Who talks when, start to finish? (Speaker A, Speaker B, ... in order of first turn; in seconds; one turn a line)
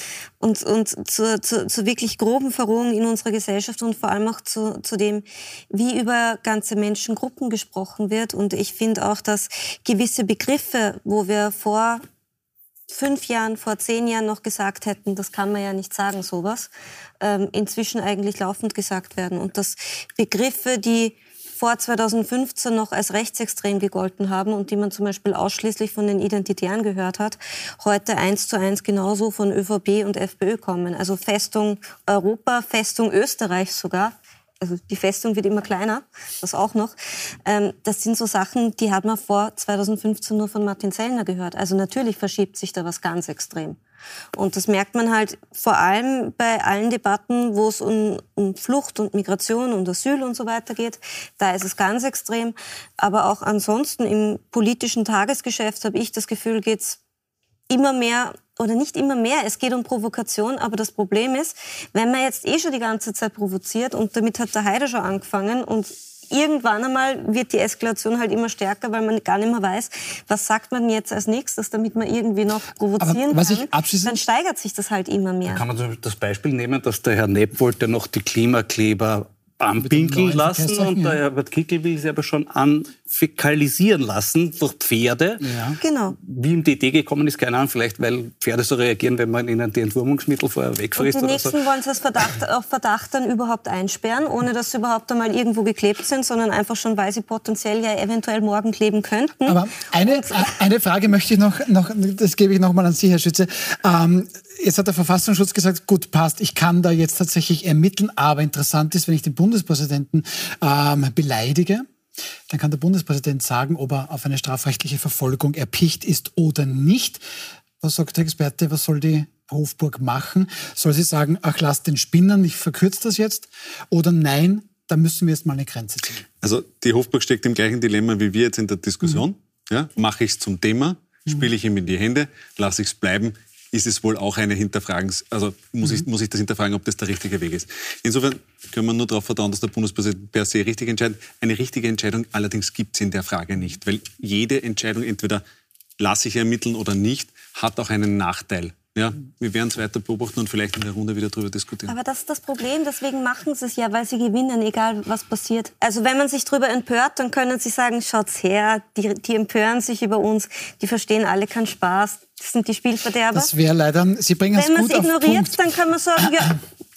Speaker A: 0.4-12.0
Speaker A: 12.9-43.8
Speaker A: 44.3-57.0
Speaker A: 57.7-75.6
Speaker B: 73.0-74.2
Speaker C: 75.5-85.5
Speaker B: 79.8-81.2
Speaker B: 85.4-85.8
Speaker A: 85.8-86.2
Speaker C: 86.1-91.6
Speaker A: 91.0-100.4
Speaker B: 99.5-111.9
Speaker B: 112.5-117.2
Speaker B: 117.8-126.2
Speaker D: 126.4-145.4
Speaker D: 146.0-151.9
Speaker A: 151.9-163.5
Speaker B: 163.3-165.6
Speaker A: 164.6-166.6